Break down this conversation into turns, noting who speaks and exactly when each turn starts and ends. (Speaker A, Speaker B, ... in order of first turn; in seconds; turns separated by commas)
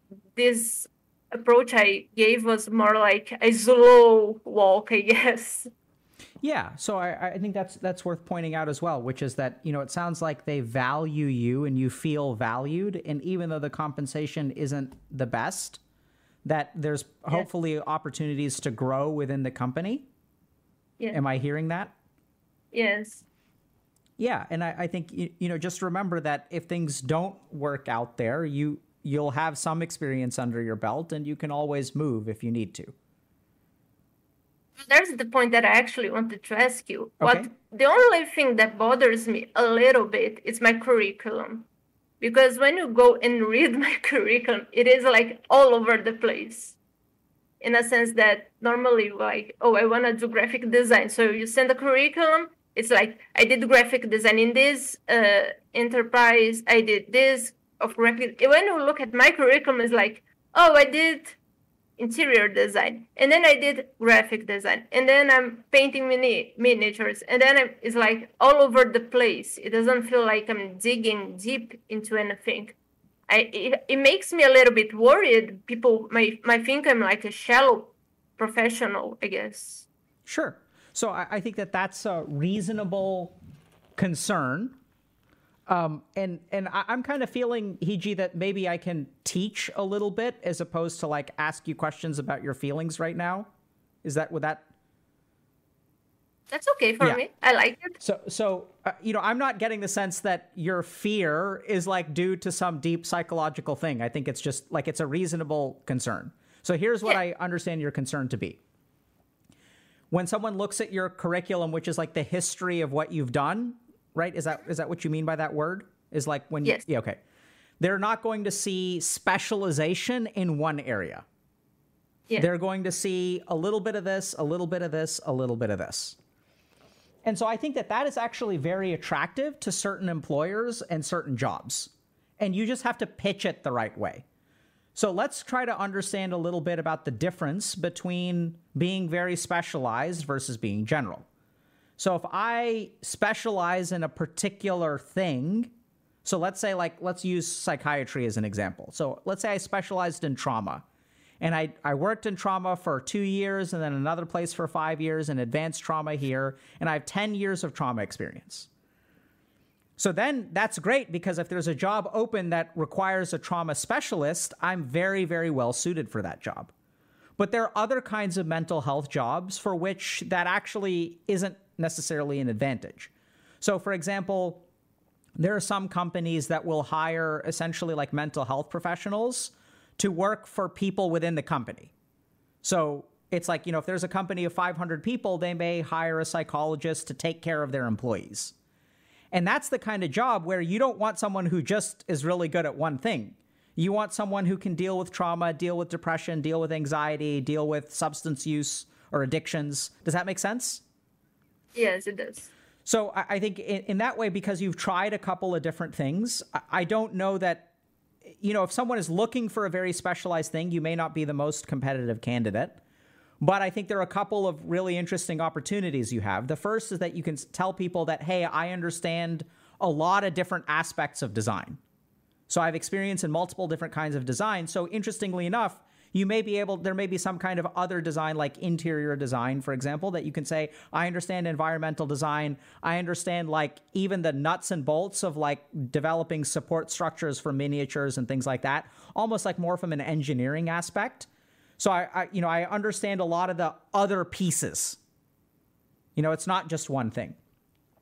Speaker A: 0.3-5.7, Speaker B: 6.4-15.8, Speaker B: 16.4-20.1, Speaker B: 21.1-21.9, Speaker A: 22.7-23.3, Speaker B: 24.2-32.9, Speaker A: 34.8-41.7, Speaker B: 37.2-37.5, Speaker A: 42.2-46.8, Speaker A: 47.6-61.4, Speaker A: 62.0-72.8, Speaker A: 73.3-79.9, Speaker B: 80.3-83.4, Speaker B: 84.0-84.8, Speaker B: 85.7-93.5, Speaker B: 94.0-94.6, Speaker A: 96.5-98.0, Speaker B: 98.0-108.6, Speaker B: 110.1-117.2, Speaker B: 117.8-121.2, Speaker B: 122.4-126.2, Speaker B: 127.2-134.2, Speaker B: 134.9-141.3, Speaker B: 142.0-145.7, Speaker B: 146.2-150.8, Speaker B: 151.4-158.7, Speaker B: 160.0-166.7, Speaker B: 167.4-174.7, Speaker B: 175.4-181.9, Speaker B: 182.6-188.5, Speaker B: 189.3-200.8, Speaker A: 201.8-202.5, Speaker B: 202.8-207.7, Speaker B: 208.4-212.8, Speaker B: 213.4-221.8, Speaker B: 222.5-241.3, Speaker B: 241.8-245.0, Speaker B: 246.2-247.4